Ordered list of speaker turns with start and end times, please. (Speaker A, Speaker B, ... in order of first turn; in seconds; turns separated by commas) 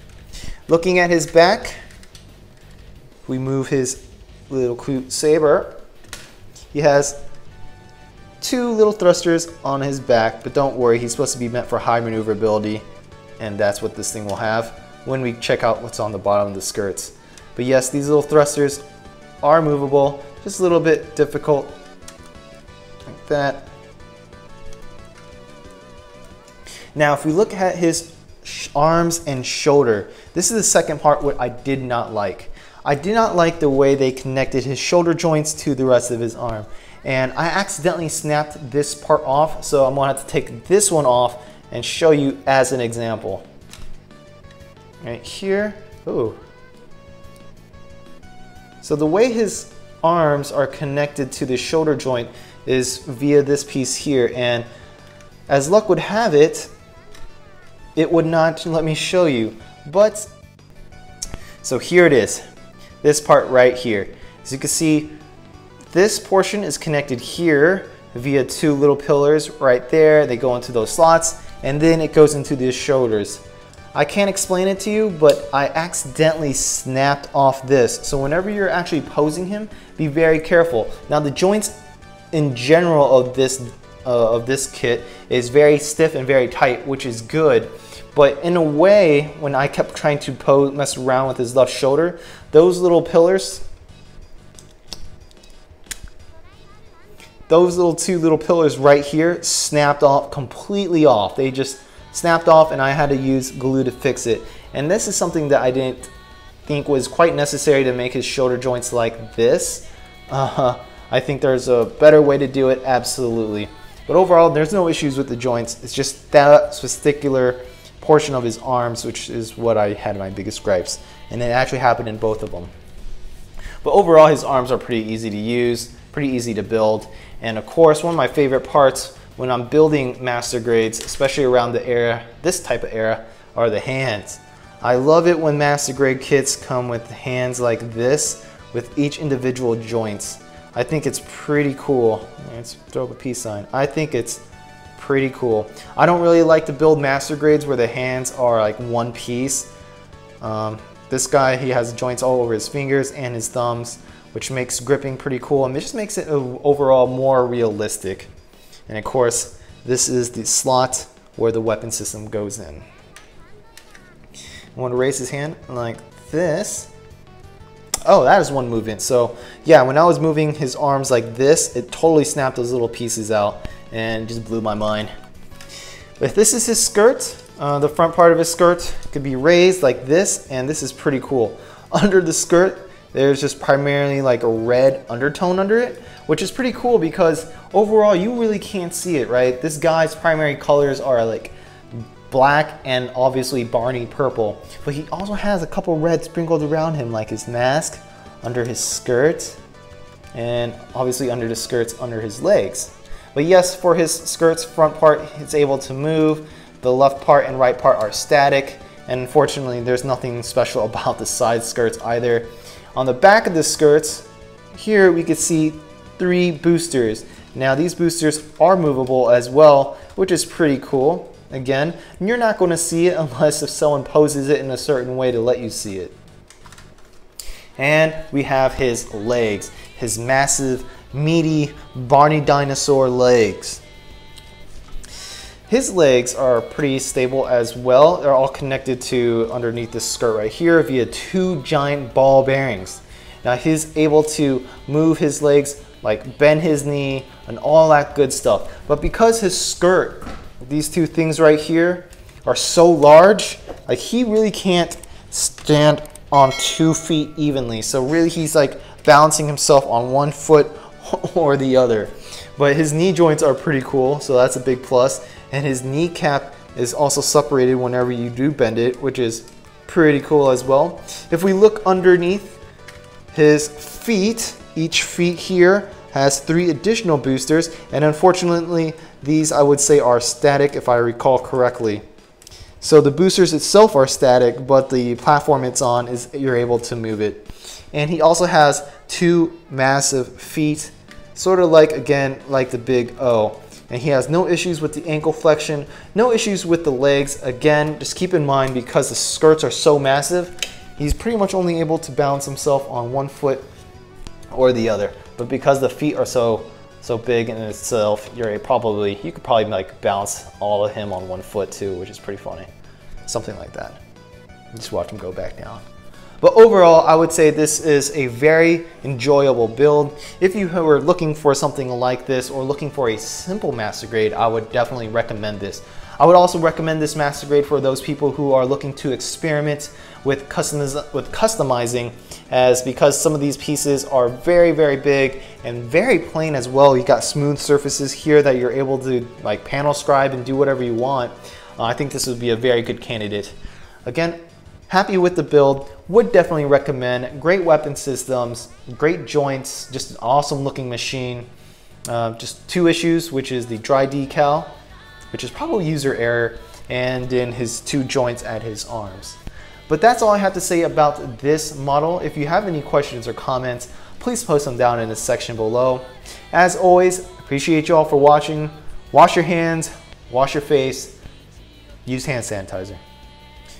Speaker A: 0.7-1.8, Speaker A: 3.2-5.8, Speaker A: 6.7-7.2, Speaker A: 8.4-12.8, Speaker A: 13.4-18.8, Speaker A: 19.4-21.8, Speaker A: 23.1-23.7, Speaker A: 26.9-43.4, Speaker A: 45.0-46.4, Speaker A: 48.8-54.7, Speaker A: 55.5-56.7, Speaker A: 58.0-60.3, Speaker A: 61.6-62.4, Speaker A: 63.0-65.2, Speaker A: 65.9-73.4, Speaker A: 73.9-81.7, Speaker A: 82.3-93.6, Speaker A: 97.5-106.1, Speaker A: 106.7-122.7, Speaker A: 123.8-144.4, Speaker A: 144.9-149.7, Speaker A: 150.4-158.3, Speaker A: 158.9-162.8, Speaker A: 164.7-166.9, Speaker A: 168.0-175.1, Speaker A: 176.2-199.6, Speaker A: 200.3-226.2, Speaker A: 227.8-233.8, Speaker A: 235.7-272.6, Speaker A: 273.3-282.0, Speaker A: 282.8-303.6, Speaker A: 304.5-312.7, Speaker A: 313.3-314.0, Speaker A: 314.7-315.8, Speaker A: 316.4-351.5, Speaker A: 352.1-354.7, Speaker A: 355.3-371.1, Speaker A: 372.1-373.0